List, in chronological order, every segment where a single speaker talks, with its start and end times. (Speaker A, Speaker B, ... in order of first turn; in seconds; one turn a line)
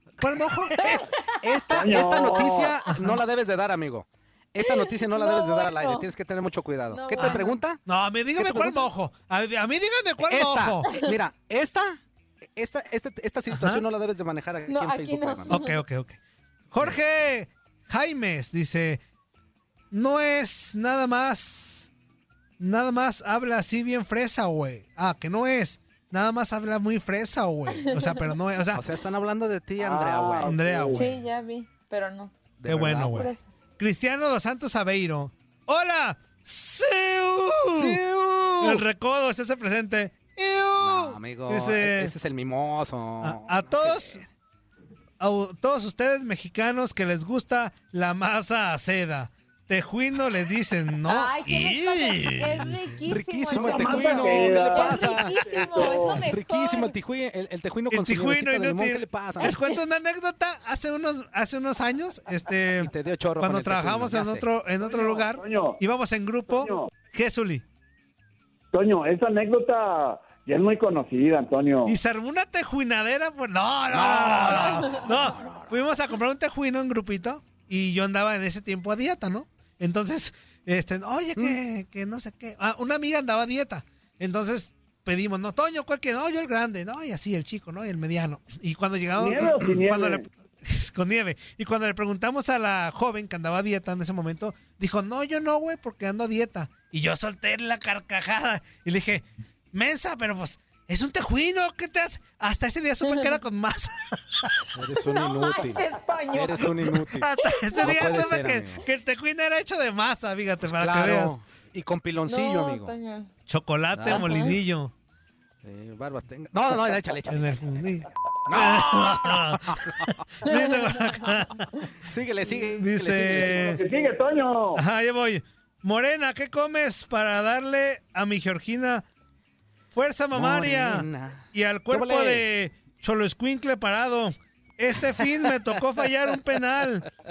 Speaker A: 0.2-0.8
Speaker B: 0.7-7.8
Speaker C: 0.8-2.5
Speaker D: 1.7-2.8
Speaker A: 2.9-3.2
Speaker C: 4.6-6.1
Speaker C: 6.9-7.6
Speaker A: 7.2-10.9
Speaker B: 8.4-8.9
Speaker B: 10.2-12.0
Speaker B: 12.6-15.6
Speaker A: 13.5-13.8
Speaker C: 14.7-15.8
Speaker A: 15.5-16.2
Speaker A: 16.7-19.0
Speaker A: 19.9-21.9
Speaker A: 22.6-28.8
Speaker C: 27.9-28.1
Speaker B: 28.7-30.6
Speaker D: 29.8-31.1
Speaker A: 30.4-31.2
Speaker C: 30.9-32.3
Speaker B: 32.6-33.3
Speaker A: 32.7-38.0
Speaker C: 33.1-33.5
Speaker B: 37.7-38.9
Speaker A: 38.6-42.1
Speaker B: 40.8-44.3
Speaker A: 43.2-44.2
Speaker A: 45.2-52.8
Speaker C: 51.1-57.0
Speaker B: 53.0-59.6
Speaker D: 53.5-56.2
Speaker A: 57.9-67.6
Speaker C: 59.4-59.8
Speaker B: 62.8-64.5
Speaker D: 64.8-65.8
Speaker D: 66.5-66.9
Speaker D: 68.7-72.0
Speaker A: 71.9-104.7
Speaker B: 73.9-75.8
Speaker D: 89.2-90.2
Speaker C: 103.0-103.3
Speaker B: 104.7-108.8
Speaker C: 105.0-106.8
Speaker A: 106.9-111.3
Speaker C: 107.4-108.5
Speaker B: 110.6-112.9
Speaker C: 112.3-113.3
Speaker A: 113.5-114.9
Speaker B: 113.9-114.6
Speaker C: 114.1-114.5
Speaker B: 115.6-117.8
Speaker A: 117.3-121.8
Speaker B: 118.5-120.2
Speaker C: 120.5-121.3
Speaker B: 122.0-123.8
Speaker A: 122.8-123.8
Speaker D: 123.3-124.8
Speaker A: 124.8-129.0
Speaker A: 129.9-137.1
Speaker B: 130.3-132.4